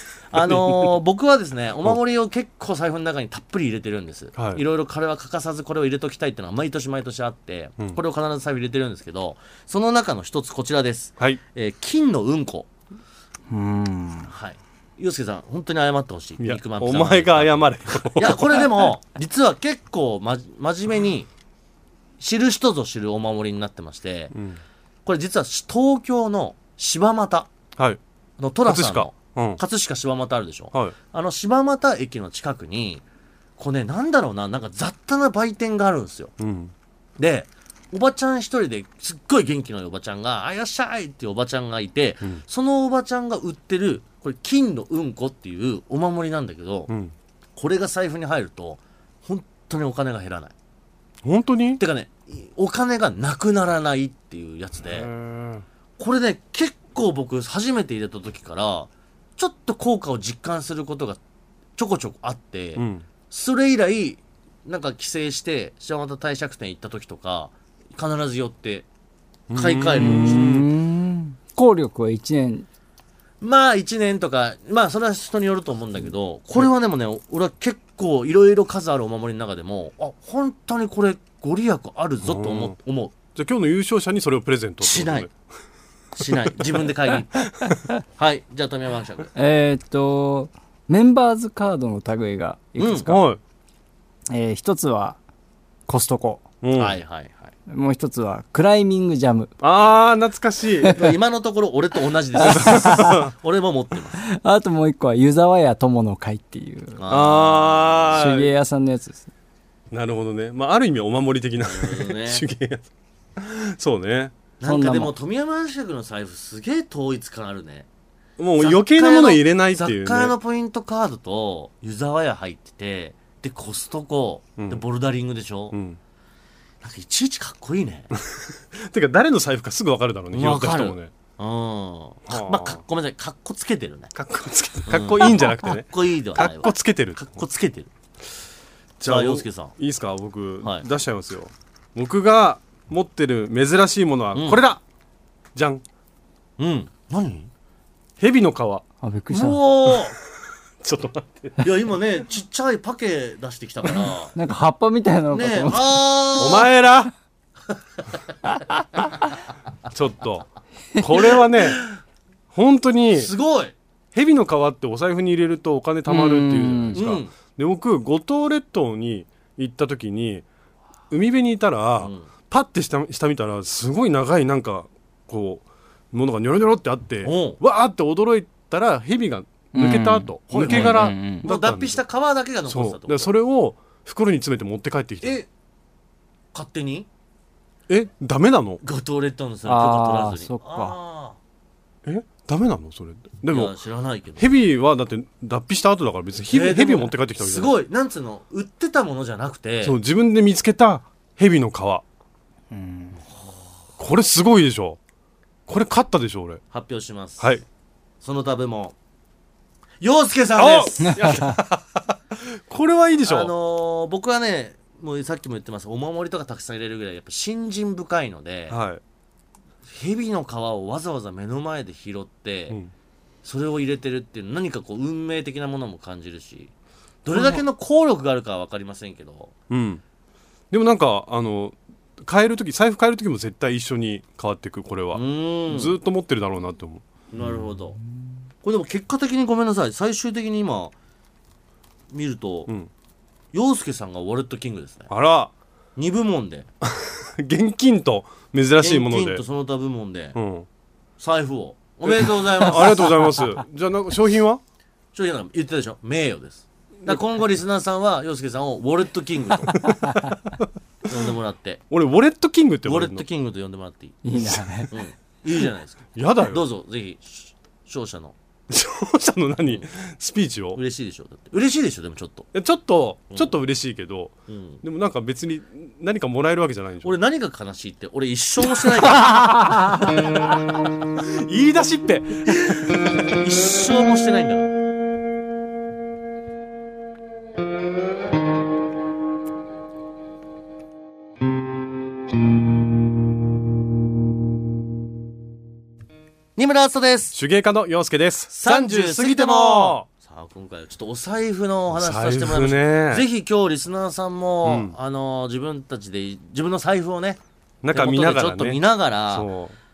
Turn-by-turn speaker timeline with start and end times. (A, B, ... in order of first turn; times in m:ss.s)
0:00.3-0:12.7 A
0:00.3-0:00.9 B
0:04.4-0:04.6 B
0:13.5-0:14.3 C
0:14.3-0:21.3 A
0:16.4-0:18.7 B
0:22.2-0:24.3 A
0:24.3-0:24.6 B
0:25.0-0:27.5 A
0:28.4-0:33.0 A
0:28.6-0:29.6 B
0:33.6-0:36.3 A
0:36.4-0:36.7 B
0:37.2-0:46.9 A
0:46.9-0:47.1 B
0:47.6-0:50.5 A
0:51.2-0:51.8 B
0:51.8-0:55.1 A
0:54.9-0:55.6 B
0:56.0-1:01.2 A
1:01.8-1:08.8 A
1:02.8-1:03.0 B
1:09.5-1:10.7 B
1:09.5-1:10.6 A
1:10.0-1:12.6 C
1:13.4-1:23.1 A
1:22.2-1:22.7 B
1:23.3-1:25.3 B
1:24.8-1:25.3 A
1:26.2-1:27.5 A
1:28.1-1:29.3 A
1:29.4-1:33.2 C
1:32.8-1:33.1 A
1:33.1-1:33.4 B
1:34.3-1:35.2 C
1:35.9-1:36.4 C
1:36.6-1:37.0 B
1:36.8-1:37.5 A
1:37.7-1:39.5 C
1:39.6-1:41.0 B
1:40.9-1:44.2 A
1:42.4-1:43.2 C
1:42.5-1:43.3 B
1:44.2-1:47.0 C
1:47.0-1:48.3 A
1:47.1-1:48.5 B
1:48.1-1:49.3 C
1:49.9-1:52.8 B
1:51.6-1:52.4 A
1:53.4-1:54.3 B
1:54.6-1:57.8 A
1:54.6-1:55.1 C
1:58.4-2:00.3 B
1:58.6-2:05.7 A
2:04.6-2:04.8 B
2:05.7-2:06.0 B
2:06.8-2:08.1 A
2:08.3-2:11.1 B
2:10.3-2:14.1 A
2:12.3-2:12.8 B
2:14.1-2:17.2 B
2:14.9-2:17.9 A
2:19.0-2:24.8 B
2:19.0-2:19.8 A
2:24.3-2:24.6 A
2:25.5-2:25.8 B
2:26.6-2:27.5 A
2:28.2-2:28.8 B
2:29.0-2:29.6 C
2:29.3-2:30.1 A
2:30.8-2:31.6 B
2:31.6-2:34.3 A
2:34.3-2:35.8 C
2:35.3-2:36.7 A
2:36.4-2:37.1 B
2:39.9-2:41.8 B
2:41.2-2:41.9 A
2:42.5-2:43.3 B
2:43.1-2:43.7 A
2:44.1-2:50.4 B
2:46.1-2:47.0 C
2:46.9-2:47.3 A
2:51.1-3:02.0 B
2:52.0-2:52.3 A
2:57.2-2:57.6 A
2:59.7-3:01.5 C
3:00.5-3:03.3 A
3:02.7-3:05.4 B
3:06.5-3:07.1 A
3:07.9-3:08.8 B
3:08.8-3:11.4 A
3:09.6-3:10.9 C
3:12.0-3:13.7 B
3:13.5-3:14.4 A
3:14.4-3:17.7 B
3:16.5-3:20.0 A
3:19.8-3:22.0 B
3:22.7-3:23.2 C
3:23.3-3:23.7 A
3:24.0-3:25.0 B
3:25.7-3:26.6 B
3:26.7-3:27.6 A
3:28.2-3:28.9 A
3:30.0-3:31.4 A
3:30.6-3:33.5 B
3:31.2-3:31.6 C
3:33.2-3:38.8 A
3:38.7-3:39.0 B
3:39.9-3:42.8 A
3:43.4-3:46.7 A
3:47.2-3:49.5 A
3:47.3-3:47.6 B
3:49.7-3:50.0 B
3:50.7-3:57.0 B
3:55.1-3:56.0 A
3:57.3-3:58.0 A
3:58.6-4:00.9 A
4:02.1-4:02.7 A
4:03.5-4:05.1 A
4:05.1-4:05.5 B
4:06.0-4:06.6 A
4:06.8-4:09.4 B
4:08.8-4:10.4 A
4:10.3-4:10.6 B
4:11.2-4:13.3 A
4:12.1-4:14.6 B
4:15.1-4:19.8 A
4:21.1-4:21.8 A
4:21.9-4:23.2 B
4:22.8-4:24.2 A
4:24.2-4:24.9 C
4:24.9-4:28.3 A
4:26.1-4:26.6 B
4:28.7-4:30.8 B
4:30.7-4:32.5 A
4:32.5-4:37.2 B
4:34.5-4:34.8 A
4:37.0-4:39.6 A
4:39.1-4:40.2 B
4:41.2-4:42.9 B
4:42.5-4:44.7 A
4:56.6-4:57.4 A
4:57.3-5:00.0 B
4:58.5-5:07.4 A
5:01.9-5:03.2 B
5:04.6-5:04.9 B
5:07.8-5:08.8 B
5:07.9-5:09.5 A
5:09.3-5:09.7 B